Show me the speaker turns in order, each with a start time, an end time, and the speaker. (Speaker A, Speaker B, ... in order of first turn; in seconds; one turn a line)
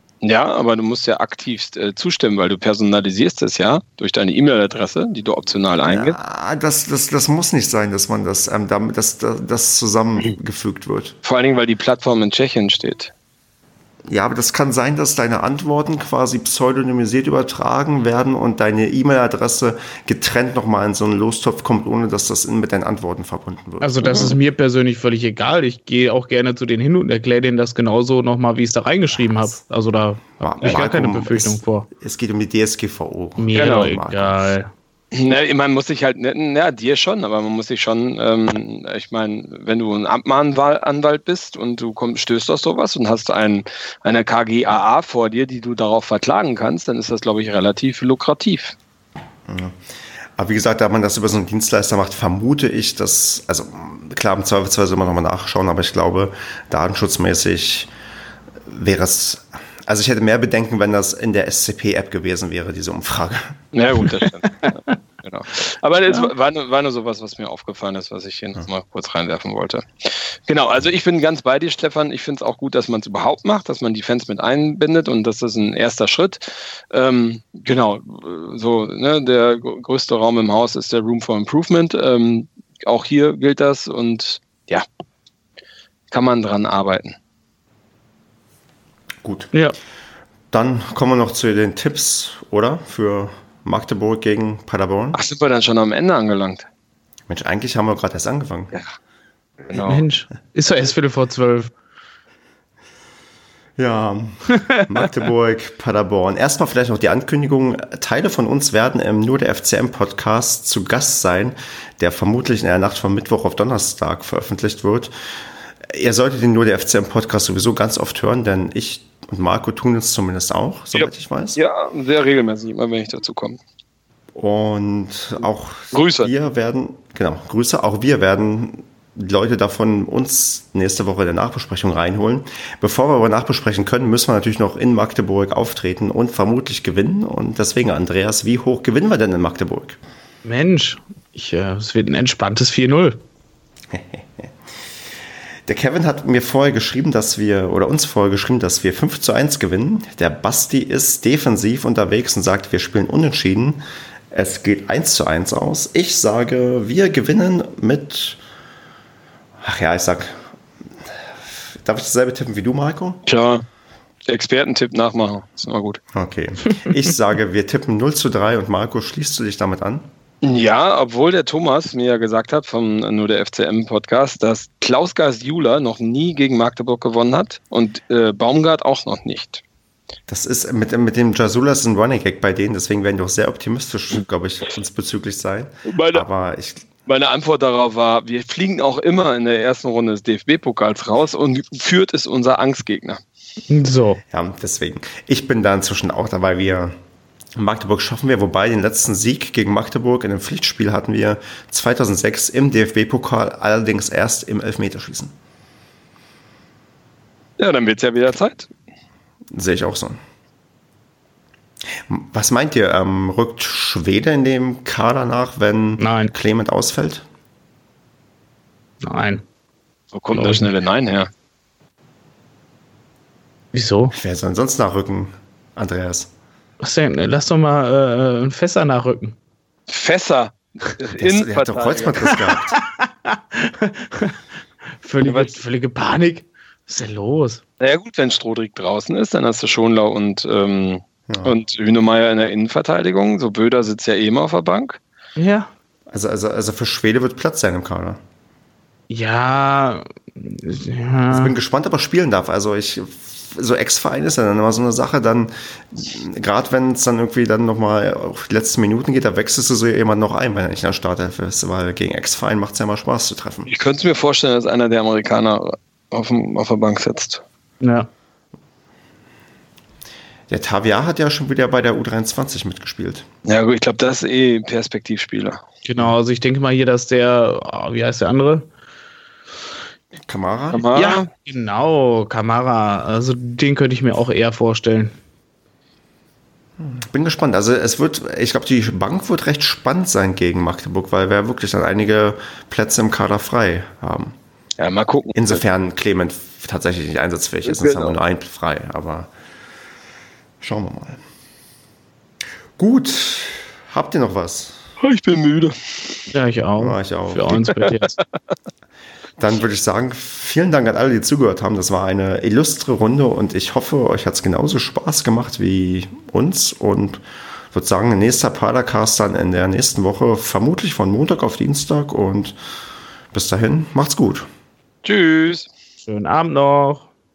Speaker A: 0.2-6.2
Speaker B: 5.9-11.1
Speaker A: 11.2-13.1
Speaker B: 14.1-24.3
Speaker C: 23.8-31.9
Speaker B: 30.4-34.5
Speaker C: 33.4-34.7
Speaker A: 33.5-33.9
Speaker A: 35.1-48.8
Speaker B: 49.5-49.8
Speaker B: 50.4-57.9
Speaker B: 58.7-63.6
Speaker A: 63.7-84.8
Speaker A: 86.1-87.2
Speaker B: 89.2-89.5
Speaker B: 90.5-95.2
Speaker A: 95.1-96.7
Speaker B: 97.3-98.7
Speaker A: 99.6-100.0
Speaker C: 99.8-101.7
Speaker B: 103.8-115.1
Speaker B: 115.8-121.6
Speaker A: 120.9-123.6
Speaker B: 124.3-140.0
Speaker A: 125.9-126.3
Speaker C: 140.4-143.2
Speaker B: 143.9-144.5
Speaker B: 145.7-153.8
Speaker B: 154.3-158.4
Speaker B: 159.6-160.5
Speaker B: 161.7-163.2
Speaker A: 163.2-163.6
Speaker A: 164.2-166.0
Speaker B: 166.1-170.1
Speaker A: 170.4-179.6
Speaker B: 180.3-186.9
Speaker A: 185.9-186.2
Speaker A: 187.1-193.2
Speaker C: 193.7-194.2
Speaker B: 194.3-196.9
Speaker B: 197.6-205.3
Speaker A: 207.6-208.7
Speaker B: 209.5-210.2
Speaker B: 212.0-217.2
Speaker C: 216.0-216.3
Speaker C: 219.0-219.4
Speaker A: 220.1-221.3
Speaker C: 220.3-220.6
Speaker C: 223.7-224.1
Speaker B: 224.1-226.3
Speaker C: 226.8-229.3
Speaker A: 229.9-232.2
Speaker B: 231.2-232.7
Speaker C: 232.7-234.4
Speaker C: 235.0-237.6
Speaker A: 235.2-235.6
Speaker A: 237.8-245.0
Speaker B: 241.3-241.6
Speaker C: 245.4-245.7
Speaker B: 246.1-248.2
Speaker C: 249.1-251.5
Speaker B: 251.3-263.7
Speaker A: 263.7-267.4
Speaker C: 267.8-268.1
Speaker B: 270.5-273.3
Speaker A: 273.4-275.6
Speaker C: 275.8-278.7
Speaker B: 280.3-280.9
Speaker A: 280.7-281.3
Speaker C: 280.9-285.1
Speaker B: 286.8-294.3
Speaker A: 294.8-295.6
Speaker B: 295.3-299.3
Speaker A: 297.6-298.1
Speaker B: 300.6-301.2
Speaker B: 302.8-304.8
Speaker A: 305.0-306.3
Speaker C: 306.3-308.1
Speaker B: 306.8-307.6
Speaker A: 307.6-308.0
Speaker B: 309.4-317.2
Speaker B: 317.7-322.6
Speaker B: 323.3-324.5
Speaker A: 325.0-325.7
Speaker C: 326.1-327.1